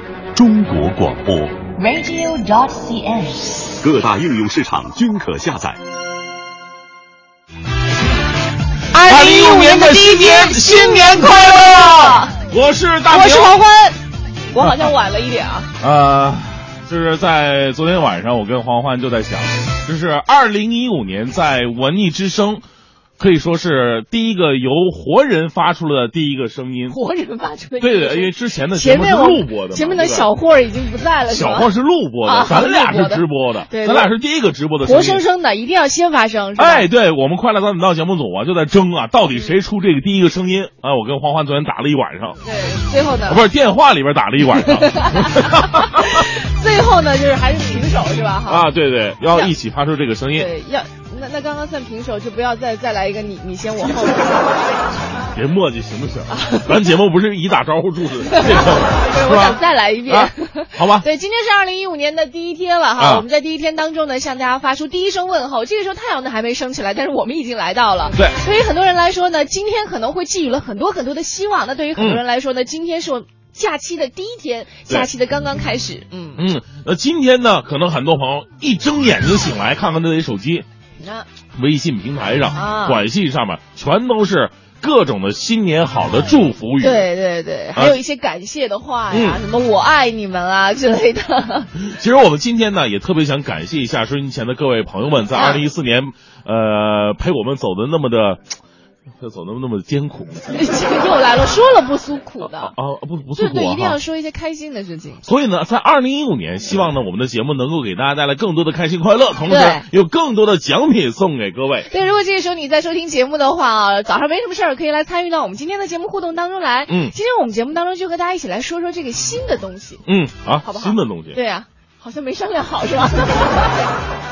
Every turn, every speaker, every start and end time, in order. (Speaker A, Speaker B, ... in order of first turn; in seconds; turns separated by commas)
Speaker A: 0.3-5.8, Speaker B: 8.9-12.3, Speaker C: 9.0-13.6, Speaker B: 13.1-14.0, Speaker B: 14.5-15.7, Speaker C: 15.8-22.6, Speaker C: 23.2-27.0, Speaker B: 26.9-31.7, Speaker C: 27.8-30.3, Speaker C: 31.3-35.2, Speaker B: 32.2-34.1, Speaker B: 34.8-36.9, Speaker C: 36.6-42.4, Speaker B: 42.4-43.4, Speaker C: 43.2-46.3, Speaker B: 44.6-48.7, Speaker C: 48.5-50.5, Speaker B: 49.2-49.5, Speaker B: 50.3-54.6, Speaker C: 55.3-61.1, Speaker B: 56.3-56.7, Speaker B: 58.3-76.5, Speaker C: 63.0-63.2, Speaker C: 72.0-72.2, Speaker C: 76.4-80.7, Speaker B: 81.0-81.3, Speaker C: 81.6-87.1, Speaker B: 82.5-83.0, Speaker B: 86.8-91.7, Speaker C: 87.7-88.0, Speaker C: 89.1-89.4, Speaker C: 91.8-98.4, Speaker B: 95.3-95.6, Speaker C: 99.2-100.5, Speaker B: 100.5-102.7, Speaker C: 102.4-104.0, Speaker B: 103.4-105.2, Speaker C: 105.2-111.9, Speaker B: 109.5-109.9, Speaker B: 111.8-120.0, Speaker C: 116.9-117.1, Speaker C: 120.1-121.4, Speaker B: 120.6-123.8